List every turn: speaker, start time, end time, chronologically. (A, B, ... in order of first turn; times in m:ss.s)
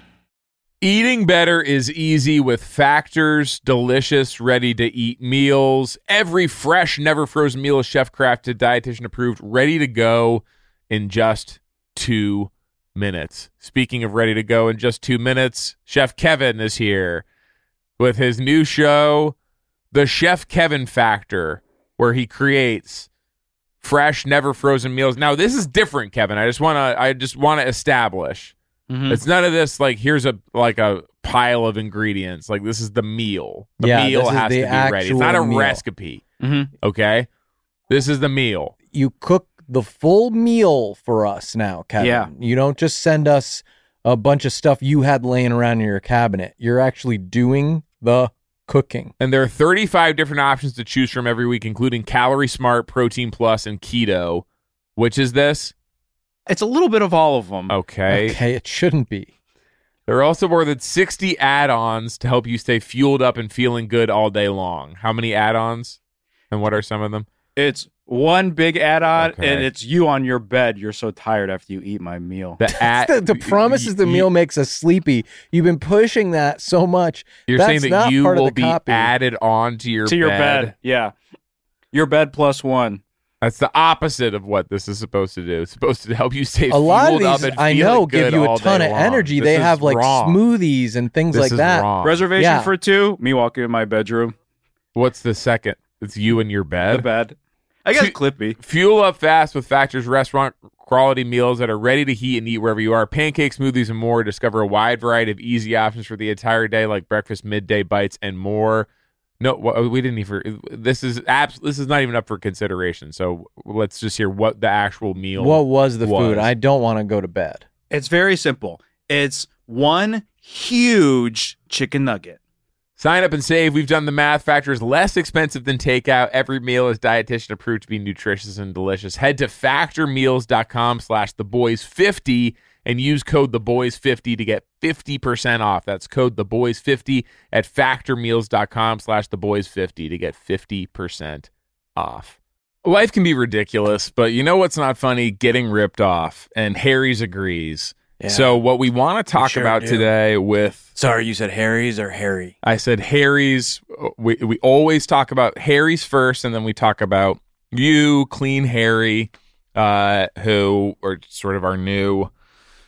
0:00.8-0:17.2 A
0:18.0-0:19.3 A
0:19.9-0:23.1 A
0:23.8-0:28.5 A
0:28.9-0:29.2 B
0:29.1-0:36.2 A
0:33.8-0:35.8 C
0:36.4-0:36.7 B
0:36.8-0:37.3 A
0:37.9-0:38.7 A
0:38.9-0:49.1 C
0:42.0-0:42.3 B
0:49.2-0:54.4 A
0:55.0-0:55.7 A
0:56.5-0:57.7 B
0:57.7-0:58.4 A
0:58.1-0:59.3 C
1:00.1-1:06.0 A
1:06.5-1:07.3 A
1:07.6-1:12.6 B
1:09.2-1:09.7 A
1:12.6-1:14.3 A
1:12.9-1:19.1 C
1:17.5-1:20.7 A
1:20.0-1:21.1 B
1:21.9-1:23.0 B
1:23.4-1:30.4 A
1:26.7-1:32.7 C
1:31.3-1:32.2 A
1:32.0-1:34.3 B
1:34.9-1:37.1 A
1:36.9-1:38.6 B
1:38.0-1:48.9 A
1:49.4-1:56.5 A
1:55.4-1:57.6 C
1:57.9-2:02.4 B
2:03.0-2:30.9 A
2:28.2-2:28.6 D
2:29.3-2:30.1 D
2:30.9-2:32.6 D
2:32.6-2:42.3 A